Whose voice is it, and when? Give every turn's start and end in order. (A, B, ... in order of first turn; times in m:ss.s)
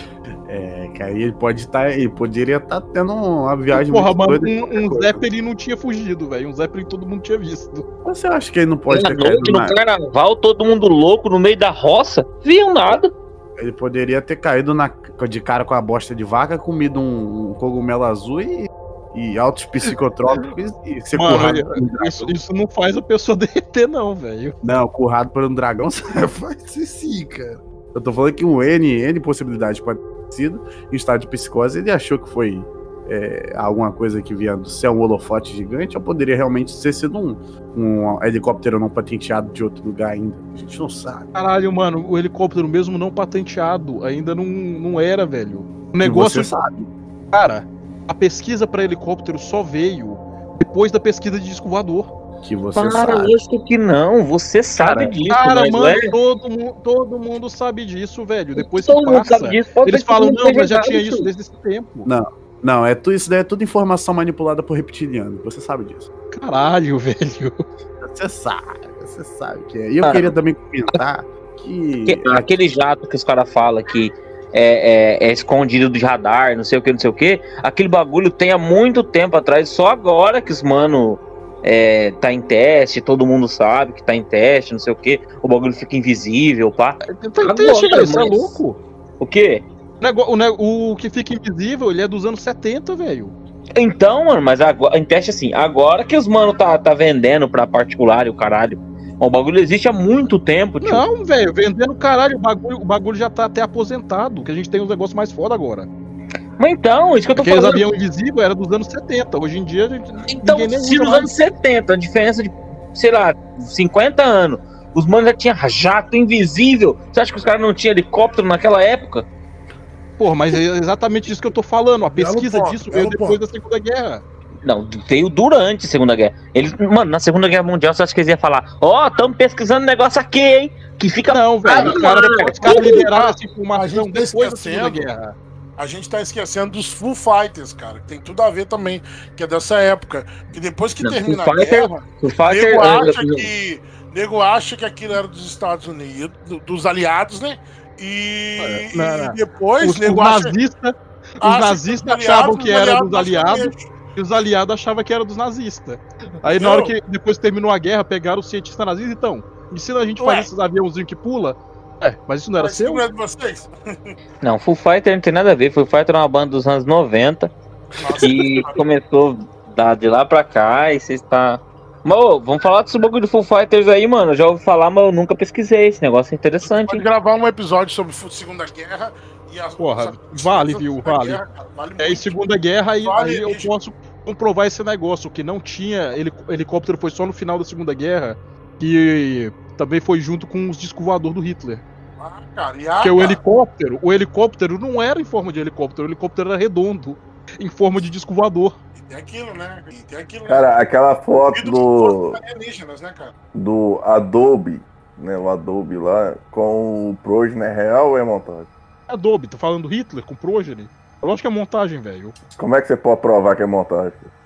0:00.4-0:05.2 A
0:03.7-0:07.8 B
0:08.0-0:09.8 A
0:08.9-0:13.1 C
0:13.6-0:22.3 A
0:21.1-0:24.5 B
0:24.6-0:41.3 A
0:41.3-0:46.5 B
0:46.0-0:46.9 A
0:47.3-0:52.1 B
0:52.4-0:53.4 A
0:52.7-0:56.1 C
0:54.8-1:02.1 B
0:58.5-1:01.3 C
1:02.0-1:06.1 A
1:06.3-1:07.6 B
1:08.0-1:12.5 A
1:10.0-1:10.3 C
1:12.1-1:28.6 C
1:27.0-1:28.8 B
1:29.2-1:29.6 C
1:30.0-1:33.3 B
1:33.8-1:41.0 C
1:40.8-1:45.9 B
1:46.6-1:47.9 C
1:47.4-1:51.3 B
1:50.3-1:59.2 C
2:00.2-2:04.2 B
2:02.1-2:03.4 D
2:04.6-2:13.0 C
2:11.3-2:15.4 B
2:11.7-2:15.1 D
2:15.8-2:30.5 D
2:21.0-2:23.5 C
2:28.6-2:43.0 B
2:31.4-2:33.8 D
2:36.5-2:36.9 D
2:40.2-2:40.5 D
2:42.6-2:44.1 D
2:44.4-2:47.5 C
2:48.0-2:48.8 D
2:48.2-2:57.0 C
2:56.6-3:02.4 D
2:59.8-3:01.4 B
3:02.0-3:11.8 B
3:03.0-3:03.7 D
3:12.2-3:13.4 D
3:13.0-3:18.8 B
3:19.0-3:20.7 D
3:20.5-3:22.4 E
3:21.5-3:23.3 D
3:23.5-3:28.7 E
3:29.1-3:32.3 B
3:32.6-3:34.3 E